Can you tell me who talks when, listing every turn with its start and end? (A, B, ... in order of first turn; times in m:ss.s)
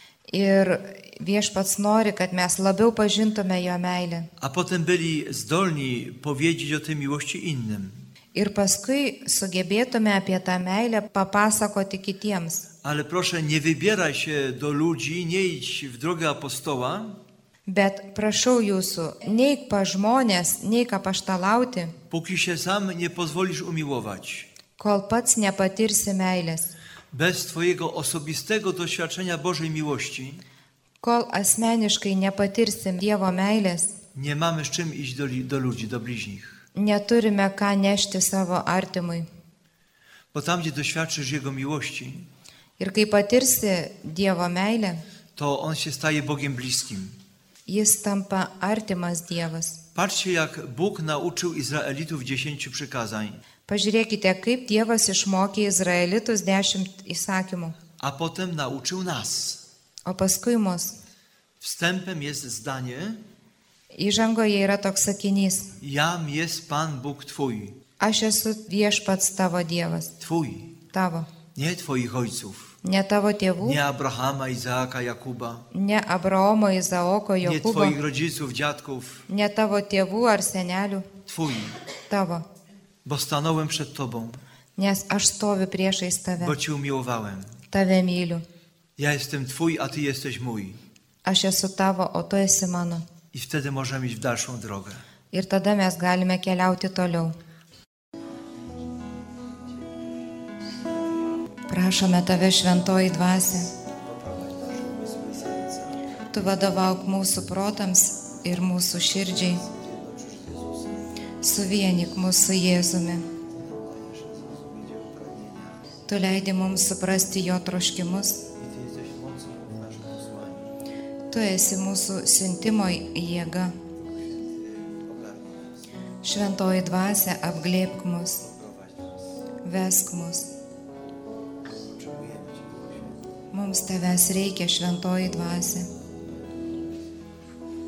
0:00.3-0:04.3 A
0:04.4-0:08.0 B
0:08.4-0:12.7 A
0:12.8-0:17.2 B
0:17.7-0:21.9 A
0:22.1-0:24.5 B
0:24.8-0:26.7 A
0:27.1-0:30.4 B
0:31.0-0:33.9 A
0:34.2-0:36.6 B
0:36.8-0:39.3 A
0:40.3-0:42.3 B
0:42.8-0:45.0 A
0:45.4-0:47.2 B
0:47.7-0:49.8 A
0:50.0-0:53.4 B
0:53.7-0:57.8 A
0:58.0-0:59.6 B
1:00.1-1:01.0 A
1:01.6-1:03.2 B
1:03.9-1:05.7 A
1:05.8-1:07.8 B
1:08.0-1:10.1 A
1:10.2-1:10.8 B
1:10.9-1:11.3 A
1:11.6-1:12.8 B
1:12.8-1:13.8 A
1:13.6-1:15.7 B
1:15.7-1:18.0 A
1:17.4-1:19.3 B
1:19.3-1:21.1 A
1:21.3-1:21.8 B
1:22.1-1:22.4 A
1:23.0-1:24.4 B
1:24.8-1:26.6 A
1:26.4-1:27.6 B
1:27.7-1:28.4 A
1:29.0-1:30.8 B
1:31.3-1:33.0 A
1:33.3-1:35.0 B
1:35.3-1:37.4 A
1:41.7-1:43.7 A
1:43.8-1:46.0 B
1:46.3-1:49.6 A
1:49.6-1:51.1 B
1:51.4-1:53.3 A
1:53.6-1:55.8 B
1:56.1-1:58.5 A
1:58.6-2:00.7 B
2:01.3-2:03.7 A
2:04.2-2:05.8 B
2:06.2-2:08.4 A
2:08.4-2:09.2 B
2:09.6-2:10.5 A
2:11.8-2:13.2 B
2:13.5-2:15.9 A